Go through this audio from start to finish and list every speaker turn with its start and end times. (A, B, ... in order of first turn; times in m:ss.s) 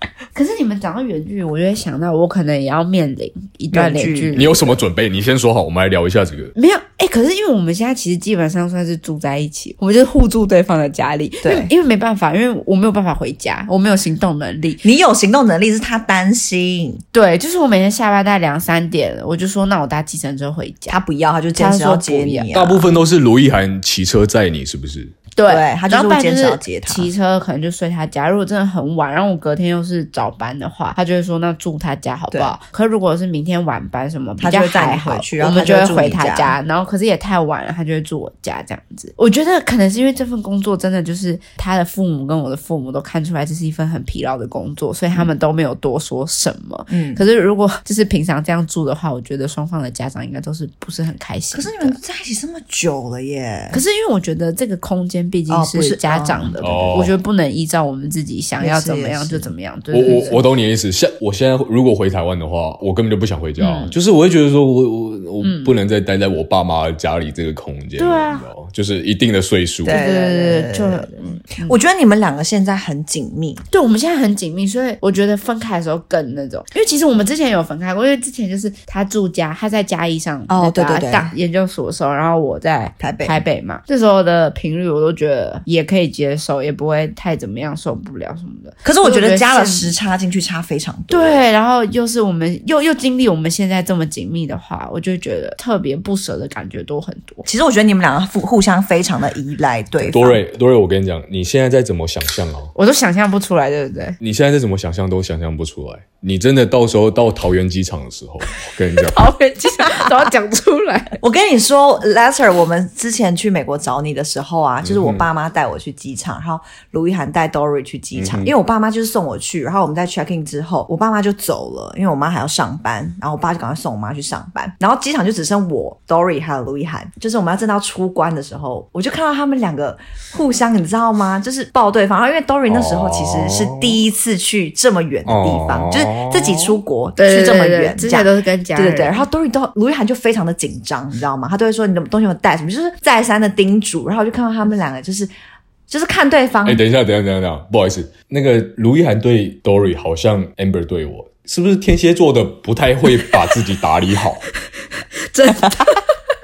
0:00.3-0:04.6 A
0:03.7-0:04.8 B
0:04.3-0:06.5 C
0:06.5-0:14.8 A
0:11.4-0:11.7 B
0:14.8-0:17.0 B
0:17.1-0:21.0 A
0:20.9-0:22.9 B
0:21.5-0:22.5 A
0:22.5-0:25.1 C
0:25.3-0:52.0 A
0:25.4-0:27.1 B
0:32.3-0:32.6 B
0:34.4-0:36.6 B
0:46.9-0:47.2 B
0:51.5-0:53.8 B
0:53.7-1:00.4 A
0:55.5-0:57.1 B
0:56.6-0:57.2 C
0:58.6-0:59.5 B
0:59.9-1:10.0 C
1:03.6-1:03.9 A
1:05.4-1:05.8 A
1:08.0-1:08.4 A
1:09.8-1:13.6 B
1:09.9-1:11.7 A
1:13.7-1:30.0 A
1:20.5-1:21.3 B
1:23.0-1:23.4 B
1:28.8-1:31.5 B
1:31.1-1:37.4 A
1:37.4-1:40.4 B
1:40.0-1:42.7 C
1:42.7-1:44.2 A
1:44.2-1:49.2 C
1:49.0-1:51.2 A
1:49.8-1:50.3 B
1:51.2-2:25.3 B
1:54.8-1:55.3 C
1:58.1-1:58.5 C
2:12.7-2:14.0 C
2:15.2-2:16.8 C
2:17.2-2:19.2 A
2:25.9-2:26.8 B
2:26.6-2:34.4 C
2:34.6-2:36.0 A